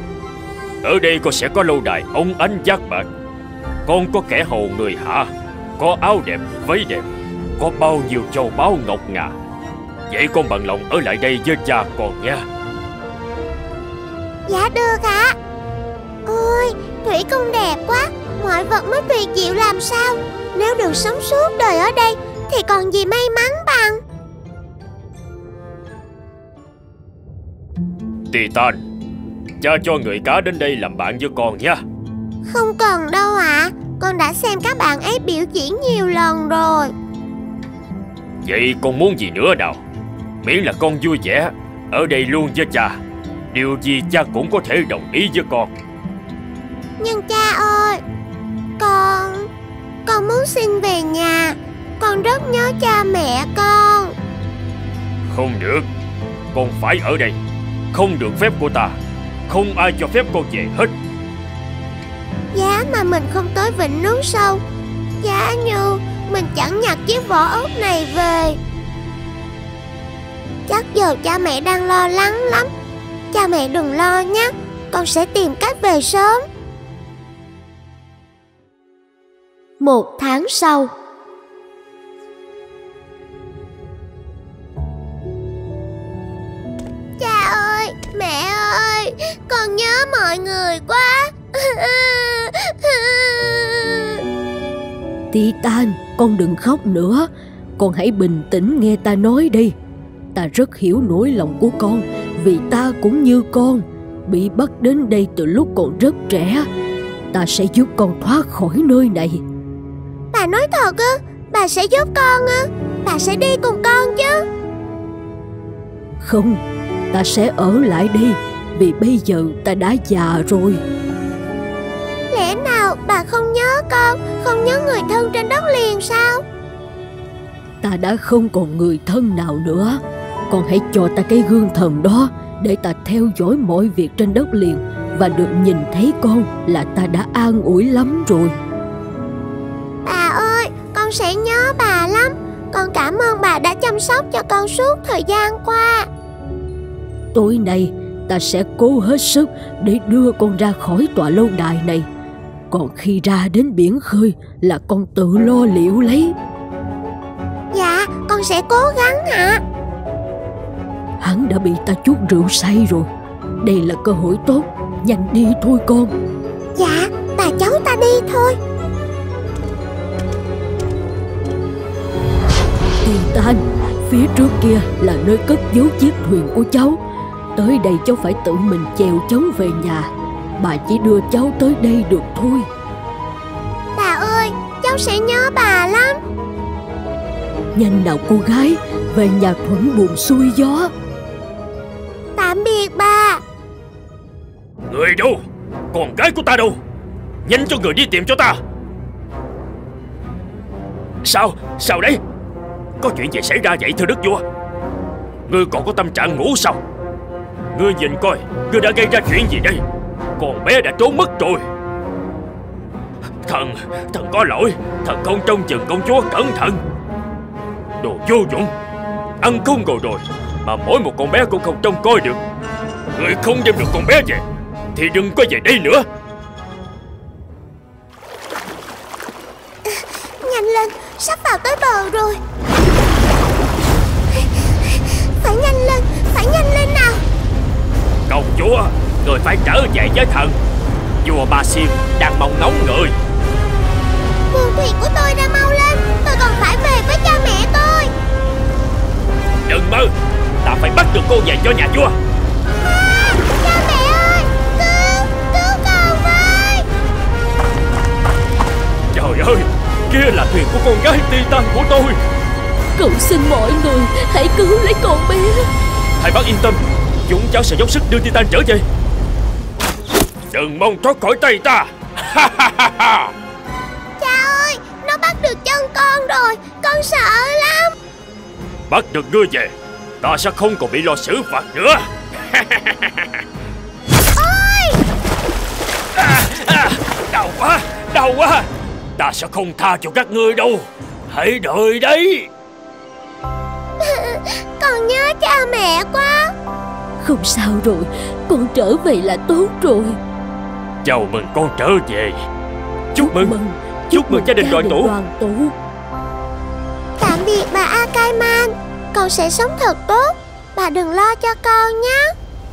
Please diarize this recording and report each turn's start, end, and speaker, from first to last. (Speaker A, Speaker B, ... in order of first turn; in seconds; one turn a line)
Speaker A: 0.8-3.1
Speaker A: 3.9-9.3
Speaker A: 10.1-12.5
Speaker B: 14.5-15.4
Speaker B: 16.3-24.0
Speaker A: 28.3-28.8
Speaker A: 29.6-31.8
Speaker B: 32.5-36.9
Speaker A: 38.4-39.8
Speaker A: 40.4-43.0
Speaker A: 43.5-45.7
Speaker B: 47.0-48.0
Speaker B: 48.8-49.5
Speaker B: 50.1-54.1
Speaker A: 55.3-55.9
Speaker A: 56.5-57.4
Speaker A: 57.9-59.0
Speaker A: 59.5-61.0
Speaker B: 62.5-64.6
Speaker B: 65.2-68.6
Speaker B: 70.7-72.7
Speaker B: 73.3-76.5
Speaker C: 79.8-80.9
Speaker B: 87.2-94.2
Speaker C: 95.3-99.8
Speaker C: 100.3-106.7
Speaker C: 107.3-109.4
Speaker B: 110.3-114.5
Speaker C: 116.2-116.6
Speaker C: 117.1-120.8
Speaker B: 122.3-126.4
Speaker C: 127.8-138.6
Speaker B: 140.1-146.1
Speaker C: 147.3-152.1
Speaker C: 152.7-156.3
Speaker B: 157.7-159.6
Speaker C: 161.2-163.1
Speaker C: 163.6-166.1
Speaker B: 166.8-168.6
Speaker C: 173.0-177.0
Speaker C: 177.6-182.7
Speaker B: 183.9-186.2
Speaker C: 187.8-190.9
Speaker B: 192.4-193.4
Speaker A: 194.9-195.4
Speaker A: 195.9-196.8
Speaker A: 197.4-198.6
Speaker A: 201.2-202.2
Speaker A: 203.0-204.4
Speaker A: 205.5-206.8
Speaker A: 207.7-209.8
Speaker A: 210.4-211.7
Speaker A: 213.4-216.8
Speaker A: 218.0-218.7
Speaker A: 219.4-222.4
Speaker A: 223.2-224.4
Speaker A: 224.9-226.1
Speaker B: 229.8-232.4
Speaker B: 234.3-237.2
Speaker A: 238.3-240.6
Speaker A: 241.2-243.2
Speaker B: 244.5-248.1
Speaker A: 249.7-250.1
Speaker A: 250.6-252.2
Speaker B: 253.2-256.9
Speaker A: 259.1-262.2
Speaker C: 263.0-265.7
Speaker A: 266.2-268.9
Speaker A: 270.5-273.3
Speaker B: 274.2-277.9
Speaker A: 278.9-283.3
Speaker B: 284.4-285.0
Speaker A: 286.1-292.5
Speaker B: 294.0-296.5
Speaker C: 297.2-300.2
Speaker A: 301.0-302.4
Speaker A: 303.1-303.6
Speaker C: 303.2-305.8
Speaker A: 304.1-305.1
Speaker B: 307.2-312.3